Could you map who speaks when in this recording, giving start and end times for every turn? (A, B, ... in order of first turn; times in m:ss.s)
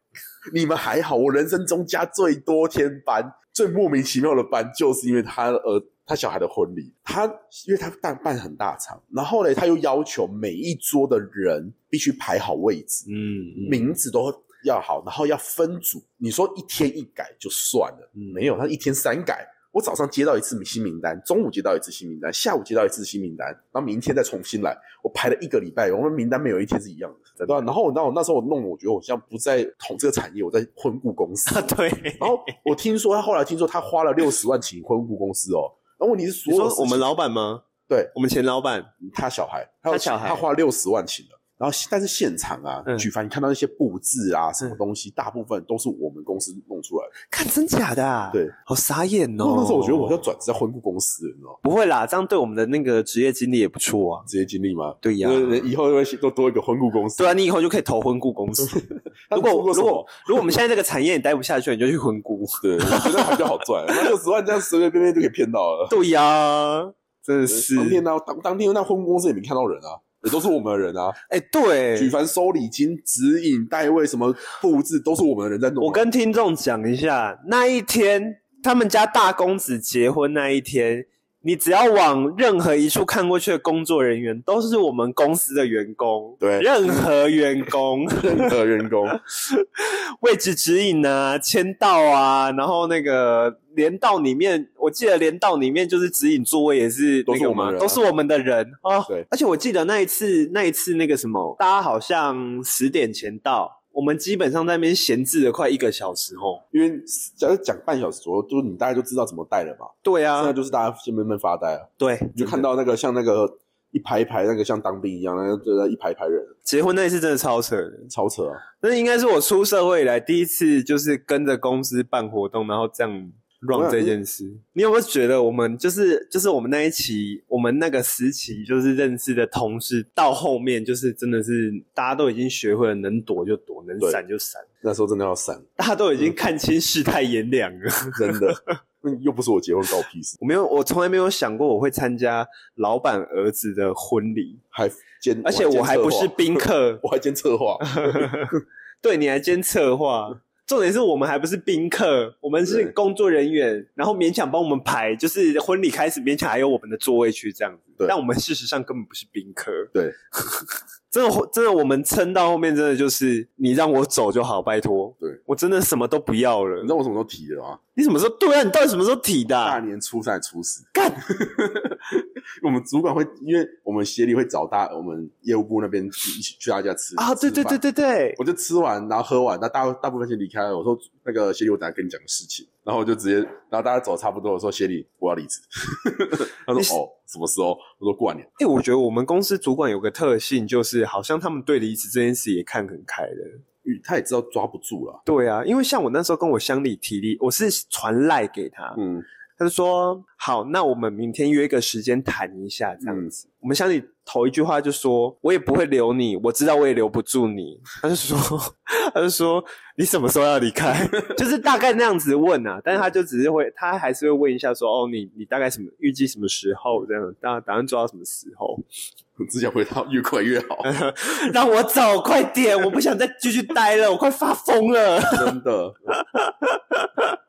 0:00.5-0:13.1 A
0:13.1-0:13.9 B
0:13.6-0:31.7 A
0:18.2-0:18.4 B
0:27.4-0:27.7 B
0:31.5-0:32.6 B
0:32.2-0:37.1 A
0:36.5-0:38.9 B
0:39.0-0:47.1 A
0:39.9-0:40.4 B
0:47.3-0:50.2 B
0:49.4-0:51.6 A
0:51.6-0:54.3 B
0:54.3-0:57.4 A
0:55.0-0:55.7 B
0:57.2-0:58.8 B
0:58.7-1:00.4 A
0:59.3-1:03.4 B
1:02.6-1:06.0 A
1:05.9-1:08.0 B
1:07.5-1:11.2 A
1:11.3-1:12.2 B
1:12.0-1:16.1 A
1:15.8-1:28.6 B
1:26.4-1:27.1 A
1:28.2-1:29.2 A
1:29.3-1:46.6 B
1:37.3-1:38.0 A
1:46.7-1:56.5 A
1:50.0-1:50.6 B
1:52.0-1:52.7 B
1:56.6-1:58.1 B
1:58.1-1:58.6 A
1:58.8-2:14.7 B
2:03.7-2:04.2 A
2:14.8-2:15.6 A
2:15.8-2:18.7 B
2:18.2-2:20.4 A
2:20.4-2:24.6 B
2:24.7-2:28.5 A
2:25.4-2:27.0 B
2:27.8-2:46.9 B
2:32.6-2:33.0 A
2:46.8-2:47.8 A
2:48.0-2:49.8 B
2:49.6-2:57.8 A
2:50.9-2:51.2 B
2:57.2-2:58.4 B
2:58.4-3:08.5 A
3:08.6-3:13.6 B
3:13.8-3:15.2 A
3:15.2-3:19.0 B
3:19.0-3:19.2 A
3:19.6-3:38.8 B
3:23.0-3:23.3 A
3:31.0-3:31.4 A
3:39.4-3:40.9 A
3:40.8-3:45.6 B
3:45.3-3:46.2 A
3:46.2-3:47.2 B